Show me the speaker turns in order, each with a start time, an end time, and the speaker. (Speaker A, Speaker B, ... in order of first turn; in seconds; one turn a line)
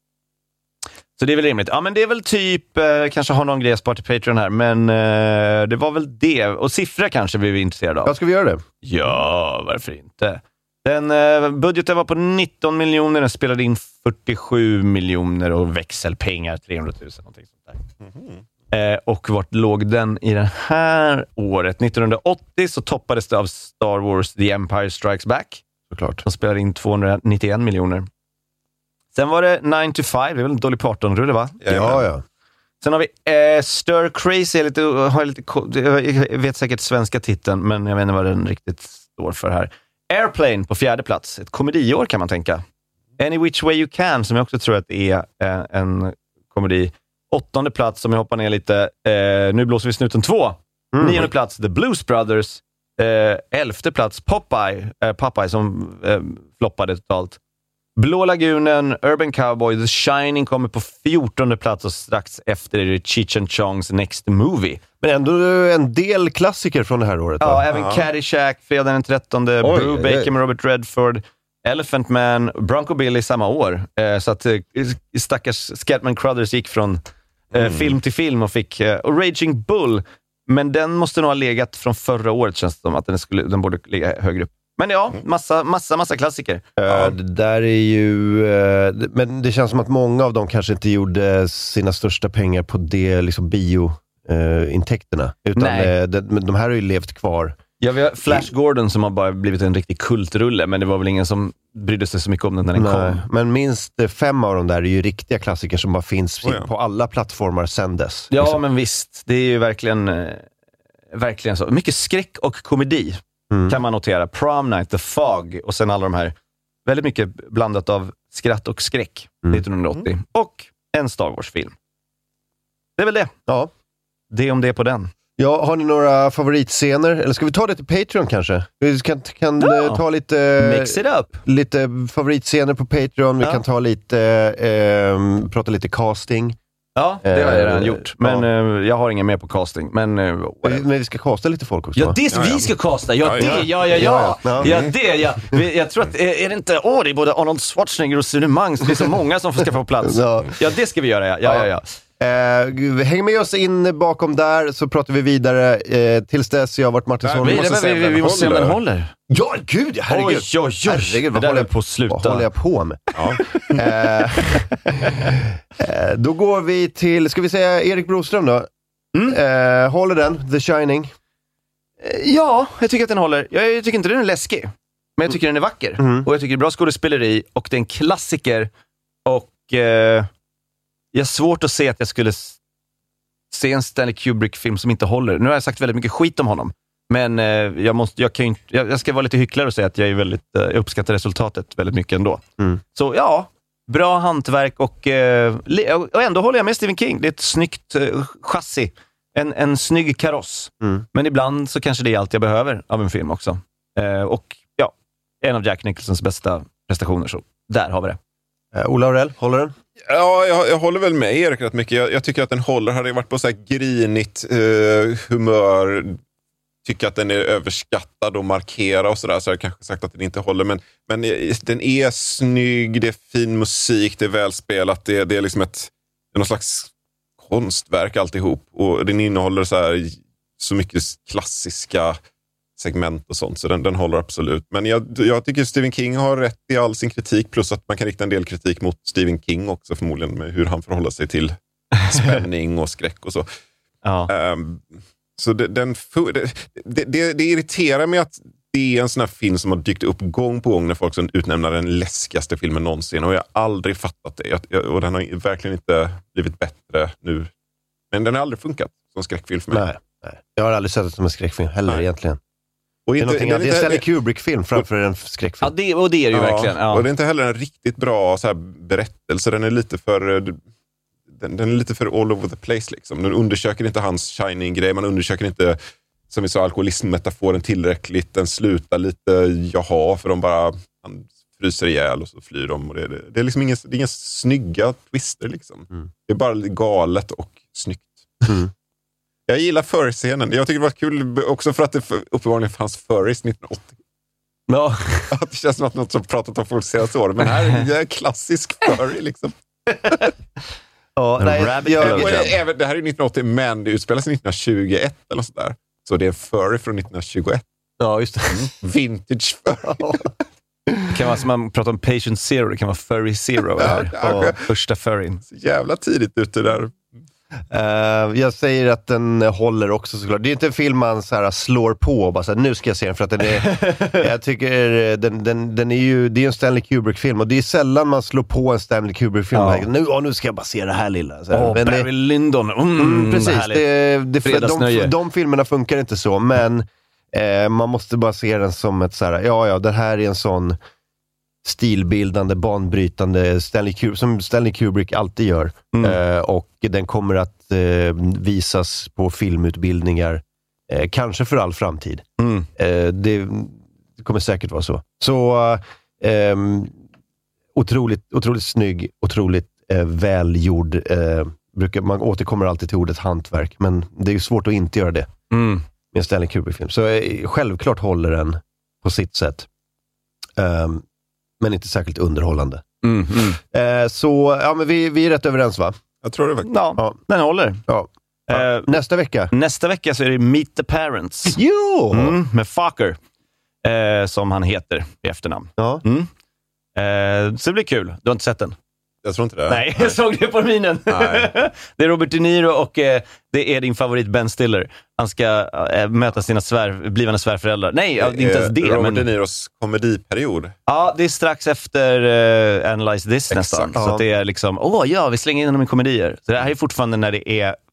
Speaker A: 1.2-8.1
Speaker B: 8.0-8.6
Speaker A: 8.8-17.8
Speaker C: 18.0-18.4
Speaker A: 18.7-25.6
Speaker B: 25.9-26.2
Speaker A: 26.2-28.1
Speaker A: 29.1-31.6
Speaker C: 31.6-32.0
Speaker B: 31.7-32.2
Speaker A: 32.8-42.6
Speaker A: 43.2-57.4
Speaker B: 50.9-51.3
Speaker A: 58.0-64.8
Speaker B: 65.0-67.7
Speaker A: 67.4-77.0
Speaker C: 67.7-68.1
Speaker B: 69.6-70.3
Speaker A: 77.5-86.6
Speaker C: 77.5-77.9
Speaker B: 86.8-97.6
Speaker C: 86.9-87.2
Speaker A: 95.5-95.9
Speaker A: 97.8-103.2
Speaker B: 102.7-108.6
Speaker C: 106.4-106.7
Speaker A: 108.3-110.5
Speaker A: 111.1-116.3
Speaker B: 113.5-113.8
Speaker A: 116.8-121.7
Speaker A: 123.0-123.3
Speaker A: 124.3-125.1
Speaker B: 125.4-136.6
Speaker A: 129.6-130.0
Speaker A: 130.6-131.4
Speaker A: 136.9-140.8
Speaker B: 137.2-138.5
Speaker B: 140.6-142.2
Speaker A: 141.9-151.8
Speaker C: 142.3-144.0
Speaker B: 143.4-144.7
Speaker C: 144.6-144.9
Speaker B: 150.0-150.6
Speaker B: 152.2-157.7
Speaker C: 157.2-158.8
Speaker A: 157.4-159.1
Speaker B: 159.3-163.1
Speaker A: 160.1-162.5
Speaker C: 163.1-163.8
Speaker B: 163.7-168.7
Speaker A: 164.5-165.1
Speaker B: 169.3-171.1
Speaker A: 172.0-178.7
Speaker B: 176.0-176.3
Speaker A: 179.2-180.3
Speaker A: 181.1-182.6
Speaker A: 183.5-192.4
Speaker A: 192.9-208.2
Speaker B: 208.7-209.7
Speaker C: 210.0-216.2
Speaker C: 216.8-232.2
Speaker C: 232.8-241.5
Speaker A: 241.9-242.4
Speaker C: 242.1-243.5
Speaker A: 244.0-244.3
Speaker C: 244.3-257.5
Speaker C: 258.1-259.8
Speaker B: 259.7-262.4
Speaker C: 263.1-264.1
Speaker B: 263.2-265.7
Speaker A: 265.6-267.1
Speaker C: 266.3-270.6
Speaker C: 271.3-288.6
Speaker C: 289.5-294.0
Speaker B: 294.7-295.3
Speaker C: 295.3-299.6
Speaker B: 301.1-302.4
Speaker A: 301.4-302.5
Speaker C: 302.0-307.6
Speaker B: 308.0-308.7
Speaker C: 308.5-310.3
Speaker B: 309.9-310.3
Speaker A: 311.1-315.4
Speaker C: 313.8-314.6
Speaker B: 314.2-314.5
Speaker C: 315.5-317.0
Speaker B: 317.7-332.1
Speaker A: 323.6-324.2
Speaker A: 329.5-329.8
Speaker A: 331.5-335.1
Speaker B: 332.9-340.8
Speaker B: 341.6-352.2
Speaker A: 345.9-346.2
Speaker A: 352.4-352.7
Speaker B: 352.8-356.9
Speaker B: 357.7-365.3
Speaker A: 365.5-365.8
Speaker B: 366.1-369.7
Speaker B: 370.6-371.0
Speaker B: 371.6-372.8
Speaker A: 373.0-373.6
Speaker B: 373.6-376.0
Speaker C: 376.2-376.7
Speaker A: 376.6-377.8
Speaker B: 377.9-379.5
Speaker A: 378.5-379.0
Speaker A: 379.5-381.6
Speaker B: 381.5-382.4
Speaker A: 382.1-383.2
Speaker A: 383.8-386.3
Speaker B: 385.8-386.0
Speaker A: 386.9-388.8
Speaker C: 389.2-390.1
Speaker A: 389.7-399.3
Speaker C: 391.1-391.5
Speaker C: 398.2-400.7
Speaker A: 400.9-407.8
Speaker C: 403.5-403.9
Speaker B: 403.9-404.2